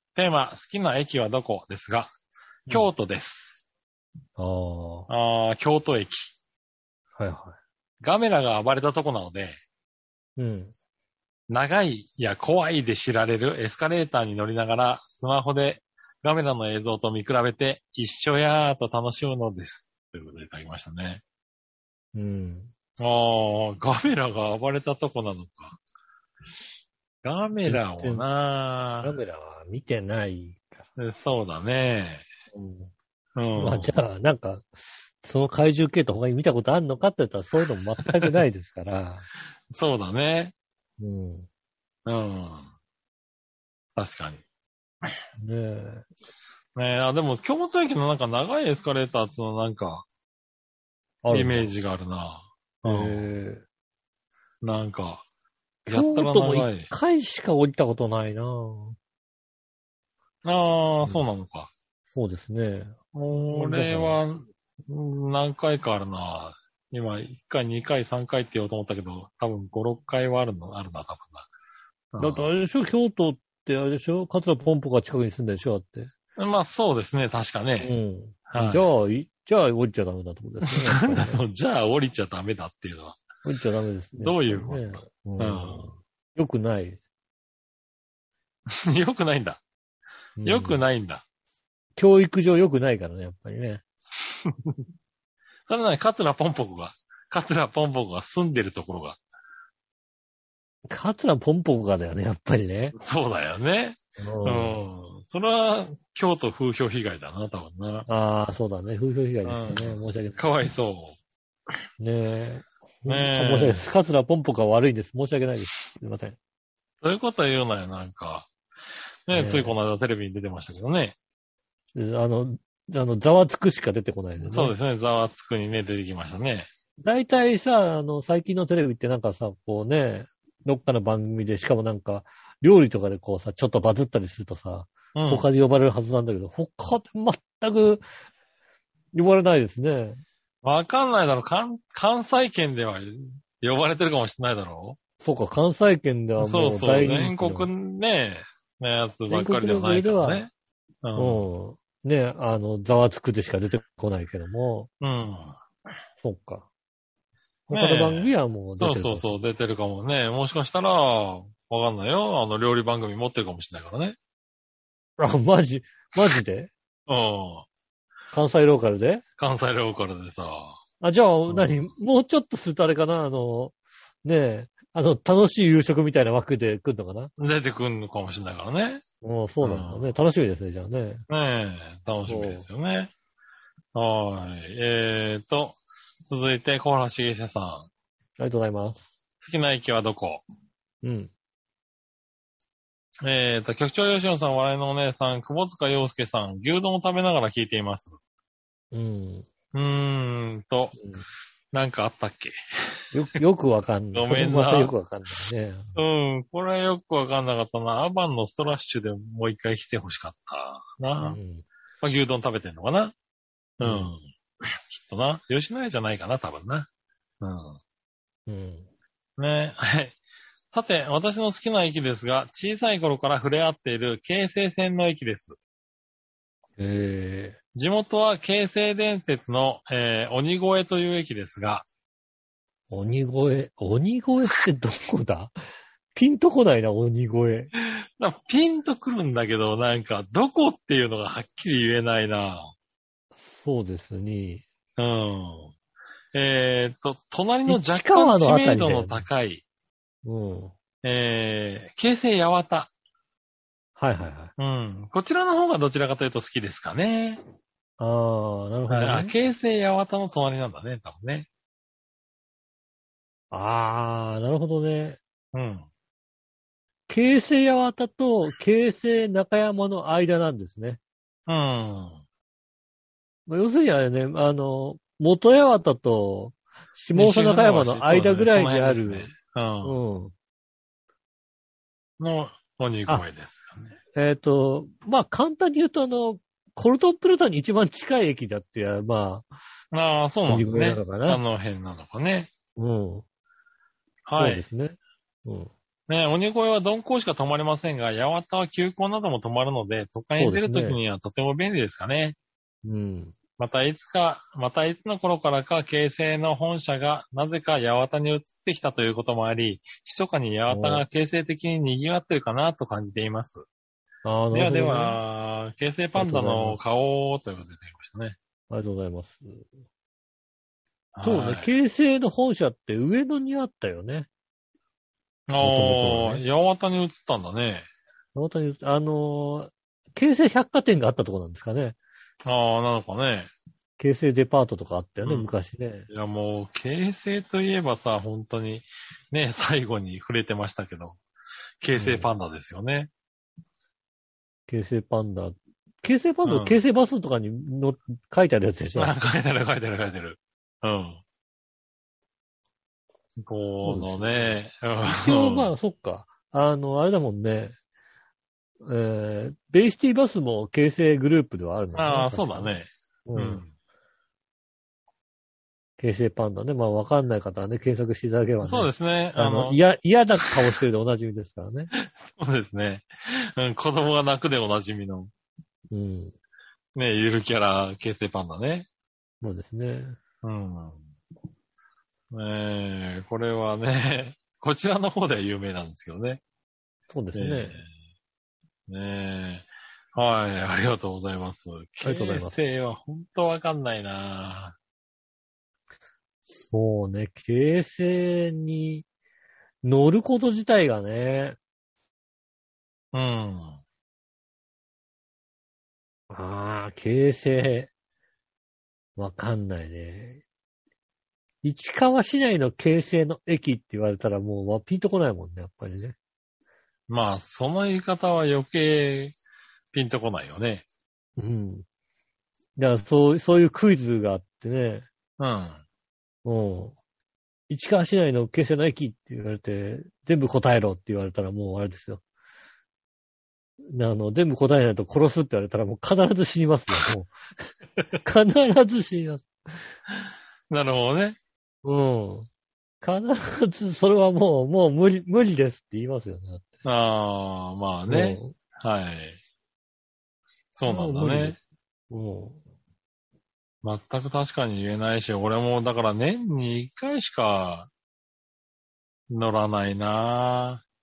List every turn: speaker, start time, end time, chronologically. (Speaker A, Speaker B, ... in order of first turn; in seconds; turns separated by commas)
Speaker A: 0.1-2.1, Speaker A: 2.7-3.6, Speaker B: 4.4-5.1, Speaker A: 5.1-6.3, Speaker B: 7.2-7.6, Speaker A: 8.0-9.6, Speaker B: 10.4-10.7, Speaker A: 11.5-21.2, Speaker B: 22.1-22.7, Speaker A: 23.0-25.8, Speaker A: 27.2-29.1, Speaker B: 27.6-28.3, Speaker B: 29.0-30.9, Speaker A: 31.0-32.3, Speaker B: 32.5-32.9, Speaker A: 33.3-33.9, Speaker B: 33.5-39.3, Speaker A: 39.7-40.5, Speaker B: 41.0-41.5, Speaker A: 42.0-42.7, Speaker A: 44.0-44.4, Speaker B: 45.4-46.1, Speaker A: 46.7-50.0, Speaker B: 51.2-51.7, Speaker A: 51.3-53.3, Speaker B: 52.8-53.6, Speaker A: 54.6-55.2, Speaker B: 55.9-59.0, Speaker A: 55.9-56.9, Speaker A: 60.4-61.7, Speaker B: 62.1-64.2, Speaker A: 63.1-71.5, Speaker A: 72.1-72.5, Speaker B: 72.2-76.1, Speaker A: 76.3-77.9, Speaker B: 77.8-81.4, Speaker A: 78.5-78.9, Speaker A: 80.6-83.2, Speaker B: 83.4-87.0, Speaker A: 84.2-86.0, Speaker A: 88.7-89.6, Speaker B: 90.4-90.8, Speaker A: 90.4-91.2, Speaker B: 92.0-93.8, Speaker A: 94.2-94.8, Speaker A: 95.7-99.2, Speaker B: 100.9-102.9, Speaker A: 102.9-108.1, Speaker B: 104.2-104.8, Speaker B: 108.1-110.4, Speaker A: 109.4-111.2, Speaker B: 112.0-116.4, Speaker A: 113.0-113.9, Speaker A: 117.0-118.5, Speaker A: 119.3-121.1, Speaker B: 119.3-119.8, Speaker B: 121.9-124.7, Speaker A: 124.4-126.7, Speaker B: 127.0-138.0, Speaker A: 135.1-135.4, Speaker B: 139.1-140.2, Speaker A: 140.6-145.0, Speaker B: 145.2-147.7, Speaker A: 146.4-150.5, Speaker B: 149.3-150.5, Speaker A: 151.0-151.5, Speaker B: 151.2-154.9, Speaker A: 155.0-155.6, Speaker B: 156.2-156.7, Speaker A: 157.7-164.2, Speaker B: 157.7-159.3, Speaker B: 165.2-166.7, Speaker A: 167.1-167.7, Speaker B: 168.3-169.2, Speaker A: 169.4-170.8, Speaker B: 171.0-177.3, Speaker A: 171.5-171.9, Speaker A: 177.4-179.0, Speaker B: 179.2-181.2, Speaker A: 179.6-180.2, Speaker A: 181.3-183.1, Speaker B: 182.3-182.7, Speaker A: 183.9-187.9, Speaker B: 188.4-189.1, Speaker A: 189.4-190.4, Speaker B: 191.0-191.3, Speaker A: 193.2-198.2, Speaker B: 198.9-199.5, Speaker A: 199.7-201.0, Speaker B: 200.9-201.2, Speaker A: 201.7-203.0, Speaker B: 203.1-205.9, Speaker A: 204.1-204.9, Speaker A: 205.9-211.4, Speaker B: 211.2-211.7, Speaker A: 212.0-213.1, Speaker A: 213.8-216.9, Speaker B: 213.8-214.1, Speaker A: 217.4-217.8, Speaker B: 218.5-218.9, Speaker A: 219.4-220.2, Speaker A: 220.7-225.6, Speaker B: 226.8-227.6, Speaker A: 227.7-231.8, Speaker B: 232.9-235.5, Speaker B: 236.1-237.7, Speaker A: 237.8-242.7, Speaker B: 243.3-244.6, Speaker A: 245.0-245.7, Speaker A: 246.3-249.6, Speaker B: 247.7-249.3, Speaker B: 250.2-250.7, Speaker A: 251.0-252.9, Speaker B: 254.0-254.5, Speaker A: 254.6-257.4, Speaker B: 258.0-259.3, Speaker A: 258.9-261.5, Speaker B: 263.5-265.2, Speaker A: 265.5-265.9, Speaker B: 267.1-271.0, Speaker A: 271.5-272.2, Speaker B: 273.5-279.3, Speaker A: 277.1-280.0, Speaker B: 279.8-280.3, Speaker A: 282.2-283.9, Speaker B: 284.1-289.5, Speaker A: 289.9-292.5, Speaker B: 290.5-291.4, Speaker B: 292.8-293.2, Speaker A: 294.2-294.6, Speaker B: 294.4-295.7, Speaker A: 296.1-302.4, Speaker B: 300.4-301.0, Speaker B: 302.8-303.3, Speaker A: 303.6-313.6, Speaker B: 310.7-311.0, Speaker B: 314.2-315.2, Speaker A: 314.5-318.4, Speaker B: 316.1-316.8, Speaker B: 318.7-319.7, Speaker A: 321.1-321.7, Speaker B: 321.2-324.3, Speaker A: 325.5-327.9, Speaker B: 325.6-326.4, Speaker B: 328.3-332.0, Speaker A: 332.4-333.5, Speaker B: 334.0-336.1, Speaker A: 335.2-335.5, Speaker A: 336.1-341.2, Speaker A: 341.8-343.1, Speaker B: 341.9-342.3, Speaker B: 344.7-349.2, Speaker A: 346.4-346.8, Speaker A: 348.9-351.2, Speaker A: 353.4-355.7, Speaker B: 353.8-357.8, Speaker B: 358.8-363.6, Speaker A: 361.9-363.7, Speaker B: 366.0-371.9, Speaker A: 368.6-369.8, Speaker A: 371.9-375.3, Speaker B: 375.9-376.3, Speaker A: 376.9-378.9, Speaker B: 379.4-380.2, Speaker A: 380.4-381.0, Speaker A: 382.3-386.4, Speaker B: 387.1-387.8, Speaker A: 387.3-387.9, Speaker A: 388.9-394.8, Speaker B: 392.0-392.6, Speaker B: 396.5-399.1, Speaker B: 399.8-401.6, Speaker A: 403.1-403.8, Speaker B: 406.3-407.9, Speaker B: 409.2-410.4, Speaker B: 411.6-416.1, Speaker A: 417.1-419.4, Speaker A: 419.9-420.8, Speaker B: 421.4-421.8, Speaker B: 422.8-425.1, Speaker A: 425.4-425.8, Speaker B: 426.4-426.9, Speaker B: 427.7-432.2, Speaker B: 433.8-437.7, Speaker B: 438.2-439.8, Speaker A: 440.7-441.4, Speaker B: 441.8-442.5, Speaker B: 443.0-446.6, Speaker A: 446.8-449.4, Speaker B: 448.1-448.5, Speaker A: 450.7-451.6, Speaker B: 450.9-451.6, Speaker B: 452.1-452.6, Speaker A: 453.8-457.9, Speaker A: 459.3-460.8